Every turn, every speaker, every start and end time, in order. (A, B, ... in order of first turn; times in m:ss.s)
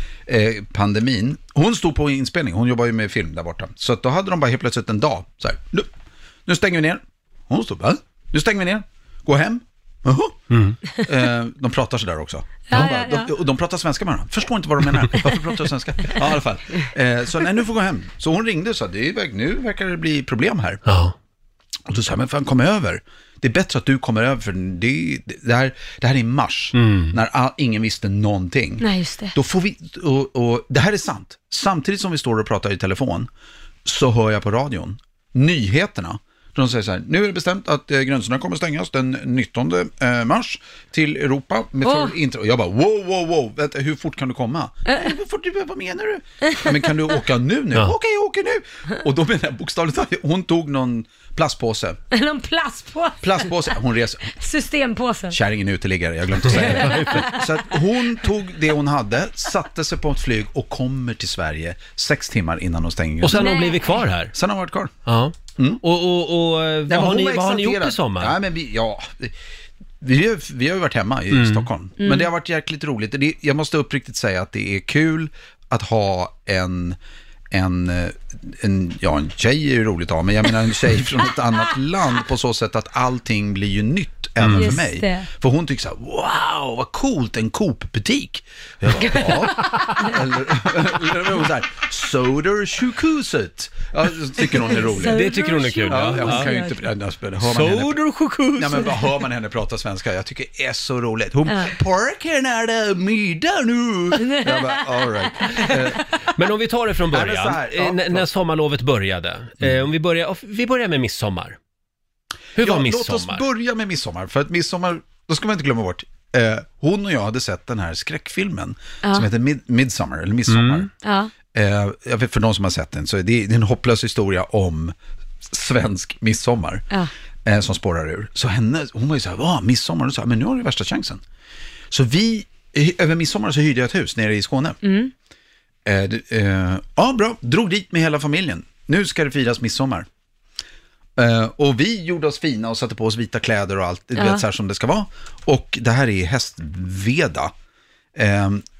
0:00.3-0:05.9 A
0:06.5-0:10.5 A
0:10.5-0:10.8 B
0:11.0-0:20.8 A
0:12.7-0:13.3 C
0:20.9-0:21.1 B
0:21.9-0:33.3 A
0:26.7-0:27.2 B
0:28.8-0:29.4 C
0:33.8-0:52.0 A
0:41.8-0:42.2 C
0:52.1-0:53.7 C
0:53.2-0:54.4 A
0:54.3-0:55.4 C
0:55.3-1:03.5 A
0:56.5-0:57.3 B
0:56.5-0:57.5 C
1:03.2-1:04.4 B
1:03.3-1:04.0 C
1:04.3-1:04.9 A
1:05.0-1:08.4 B
1:05.6-1:05.8 A
1:06.9-1:09.3 A
1:10.0-1:17.0 A
1:11.3-1:11.7 B
1:12.0-1:12.3 C
1:17.5-1:35.3 A
1:24.4-1:24.8 B
1:24.5-1:25.3 C
1:29.0-1:29.9 B
1:29.1-1:30.0 C
1:34.7-1:36.8 C
1:35.0-1:36.5 B
1:35.9-1:38.0 A
1:37.4-1:39.1 B
1:38.6-1:46.0 A
1:41.5-1:41.7 C
1:44.2-1:45.8 C
1:46.4-1:51.6 B
1:47.1-1:48.3 A
1:52.6-1:53.4 B
1:52.6-2:00.9 A
2:00.5-2:00.9 B
2:01.0-2:01.3 C
2:01.5-2:06.9 A
2:07.5-2:11.2 A
2:11.9-2:14.8 A
2:14.8-2:15.1 C
2:15.9-2:20.1 A
2:21.2-2:27.5 A
2:24.2-2:24.4 C
2:28.2-2:28.6 A